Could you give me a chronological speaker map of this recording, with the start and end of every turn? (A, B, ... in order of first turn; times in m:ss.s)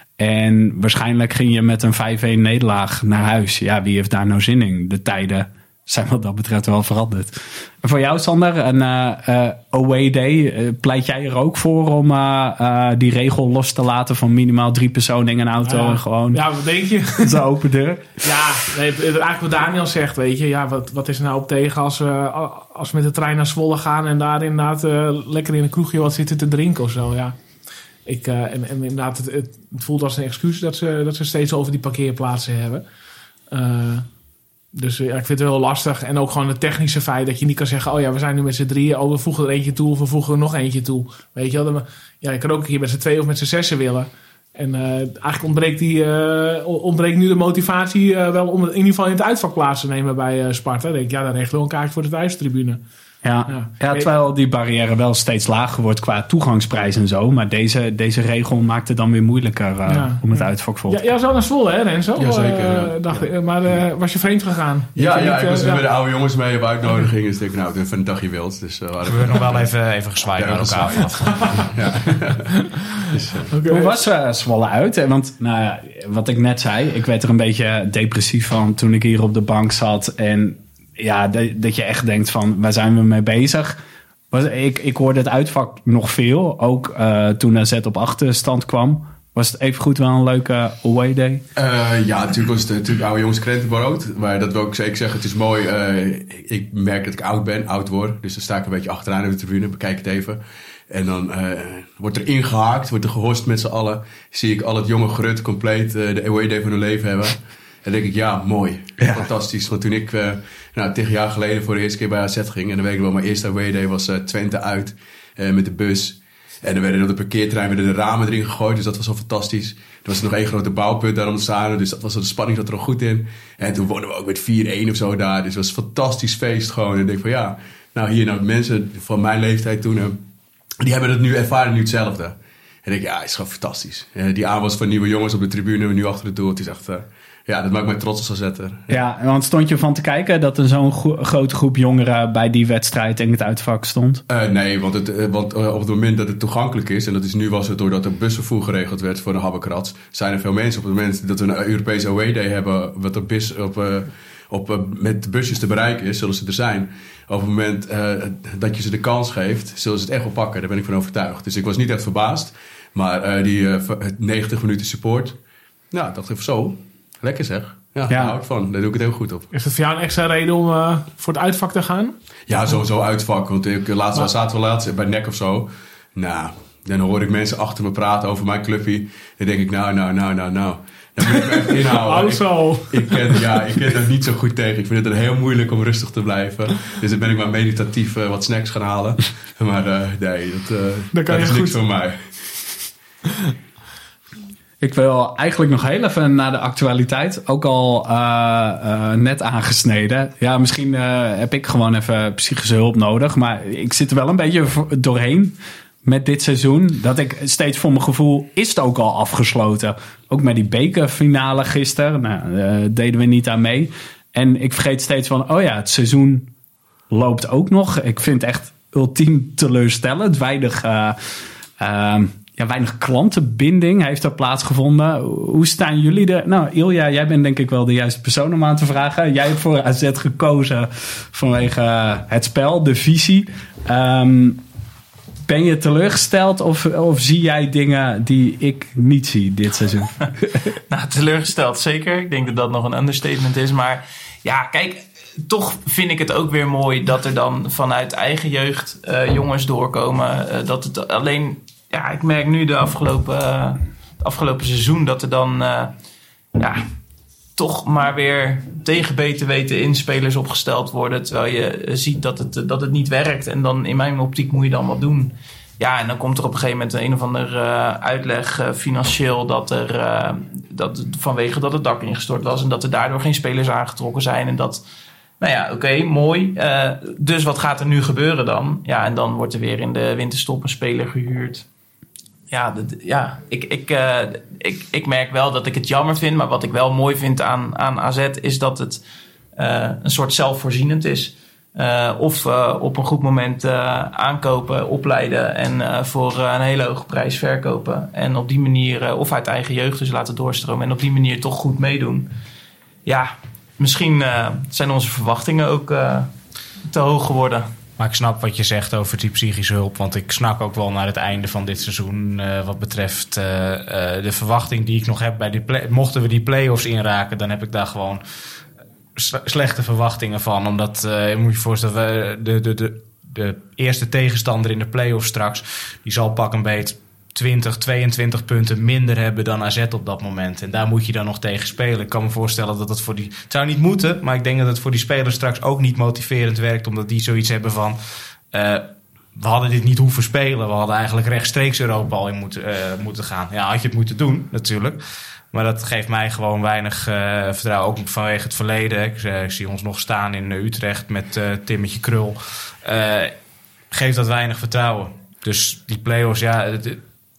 0:00.2-0:16.4 A
0:15.6-0:17.4 B
0:17.2-0:18.4 A
0:18.2-0:27.4 B
0:28.0-0:32.8 B
0:33.5-0:34.1 B
0:34.7-0:52.8 B
0:53.2-1:01.0 A
0:53.5-0:54.1 B
0:59.8-1:05.8 B
1:02.2-1:03.1 C
1:05.0-1:09.7 C
1:09.0-1:11.7 D
1:10.4-1:12.5 C
1:11.2-1:11.7 B
1:12.5-1:14.0 B
1:13.1-1:13.5 C
1:13.7-1:23.8 A
1:24.3-1:31.4 A
1:31.6-2:10.2 C
1:49.0-1:49.3 A
2:10.8-2:19.0 C
2:18.9-2:24.2 A
2:24.3-2:45.4 C
2:45.9-2:49.5 C
2:48.1-2:48.4 A
2:49.5-2:52.1 B
2:52.5-3:12.4 C
3:01.3-3:03.6 B
3:11.1-3:11.8 B
3:14.8-3:36.5 A
3:37.1-3:41.2 A
3:41.8-3:54.6 A
3:55.4-4:00.1 A
4:00.9-4:15.9 E
4:16.6-4:16.8 E
4:17.6-4:34.8 E
4:35.4-4:41.6 E
4:42.5-4:49.0 E
4:49.6-5:02.3 E
5:03.0-5:06.3 E
5:06.8-5:07.7 E
5:08.0-5:18.2 D
5:19.2-5:38.0 D
5:38.5-5:45.0 D
5:45.5-5:53.3 D
5:53.9-5:57.0 D